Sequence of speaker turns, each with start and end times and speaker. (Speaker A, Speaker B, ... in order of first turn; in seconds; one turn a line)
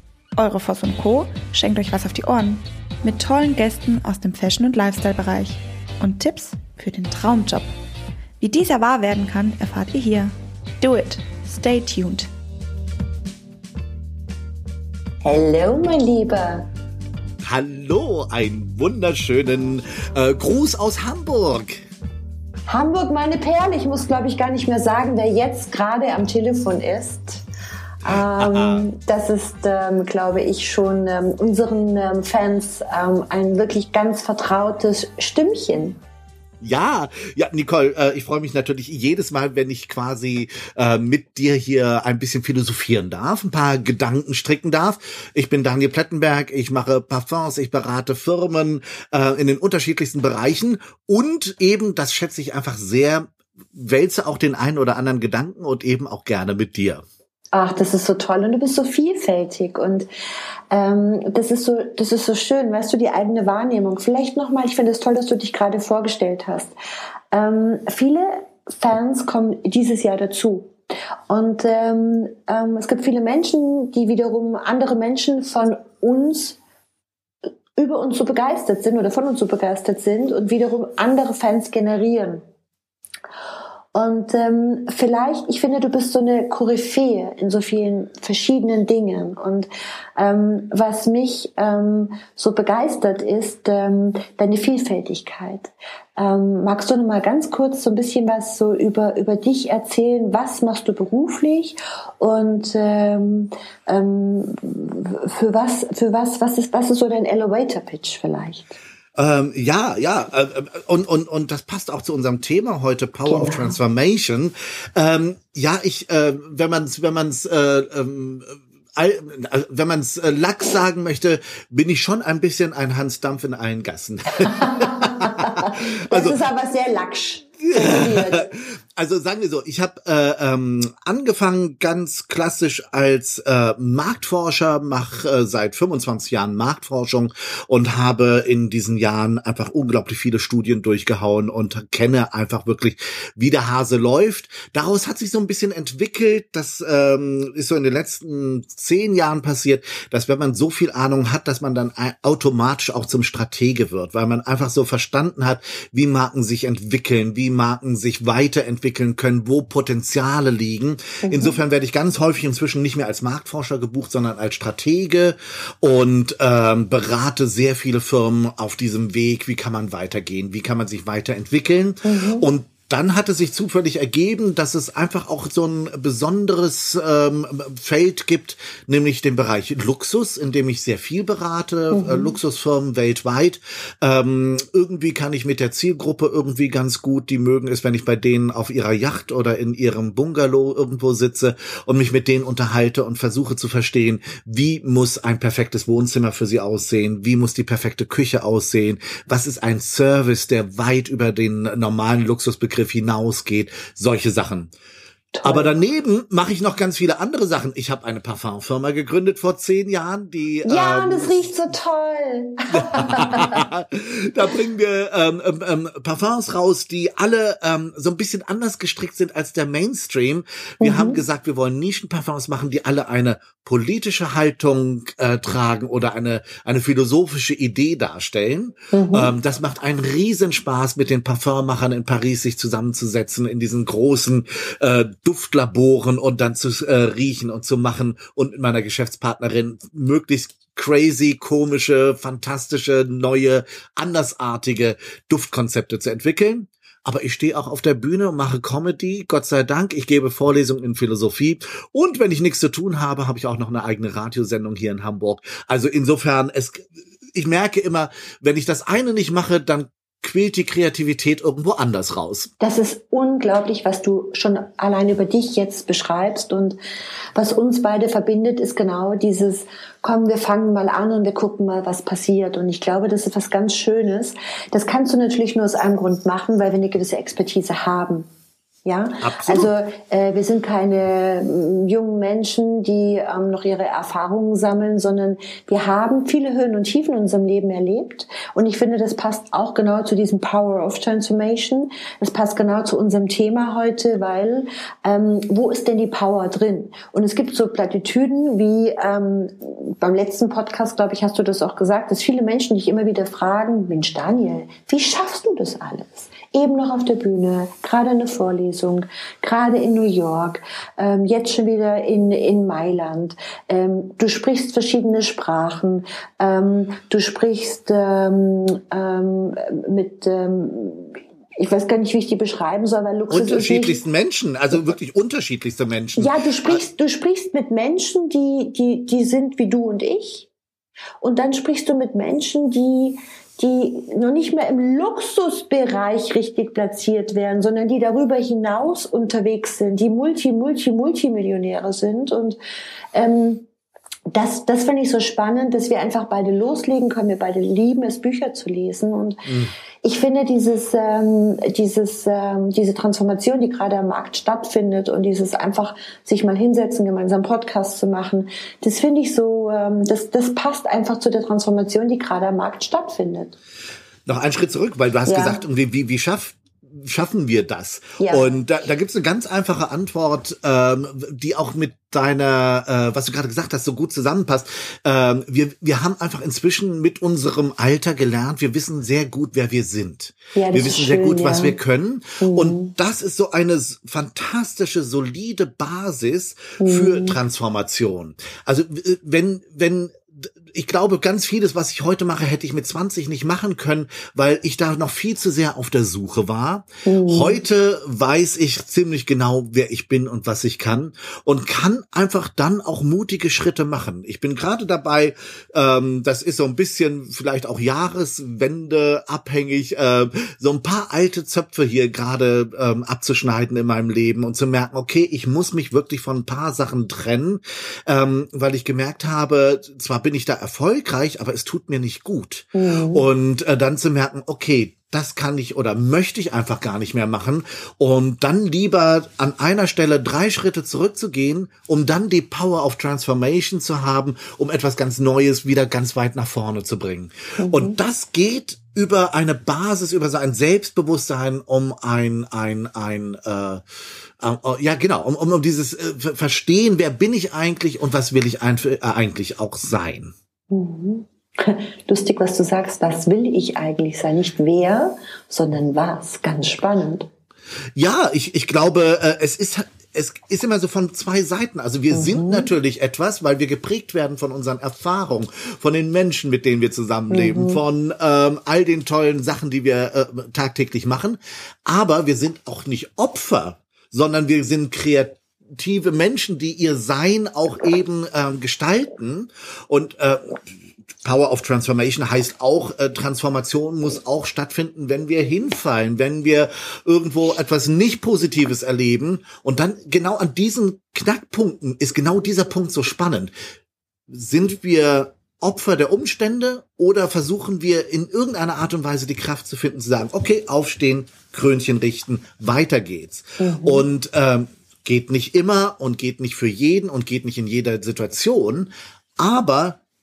Speaker A: 0.4-7.7
Speaker A: 8.4-12.3
Speaker B: 15.2-16.7
Speaker C: 17.4-21.8
Speaker B: 22.7-27.4
Speaker B: 28.0-36.0
Speaker C: 28.1-28.9
Speaker C: 36.6-57.0
Speaker B: 57.5-60.1
Speaker B: 60.7-66.7
Speaker B: 67.3-70.7
Speaker B: 71.3-76.6
Speaker B: 77.8-82.4
Speaker B: 83.9-108.8
Speaker C: 109.2-126.4
Speaker B: 113.2-113.8
Speaker B: 124.5-128.5
Speaker C: 127.6-204.7
Speaker B: 161.2-161.6
Speaker B: 172.0-172.5
Speaker B: 181.9-182.3
Speaker B: 205.3-205.8
Speaker C: 205.4-211.5
Speaker B: 210.7-213.7
Speaker C: 212.7-262.5
Speaker B: 220.8-221.2
Speaker B: 228.9-229.3
Speaker B: 262.6-266.8
Speaker B: 267.4-278.3
Speaker B: 278.9-324.0
Speaker C: 279.2-279.7
Speaker C: 323.3-326.8
Speaker B: 326.2-330.5
Speaker B: 331.2-342.6
Speaker B: 343.1-343.7
Speaker B: 344.3-349.5
Speaker C: 349.5-349.7
Speaker B: 350.0-363.6
Speaker C: 364.3-443.8
Speaker B: 365.2-365.6
Speaker B: 368.2-368.6
Speaker B: 380.6-381.8
Speaker B: 382.4-382.9
Speaker B: 386.8-387.4
Speaker B: 397.1-397.6
Speaker B: 422.8-423.3
Speaker B: 437.6-438.0
Speaker C: 444.4-450.3
Speaker B: 450.7-457.3
Speaker C: 458.0-480.6
Speaker B: 462.1-462.7
Speaker B: 467.3-467.8
Speaker C: 481.2-493.5
Speaker C: 494.3-510.0
Speaker B: 503.6-504.1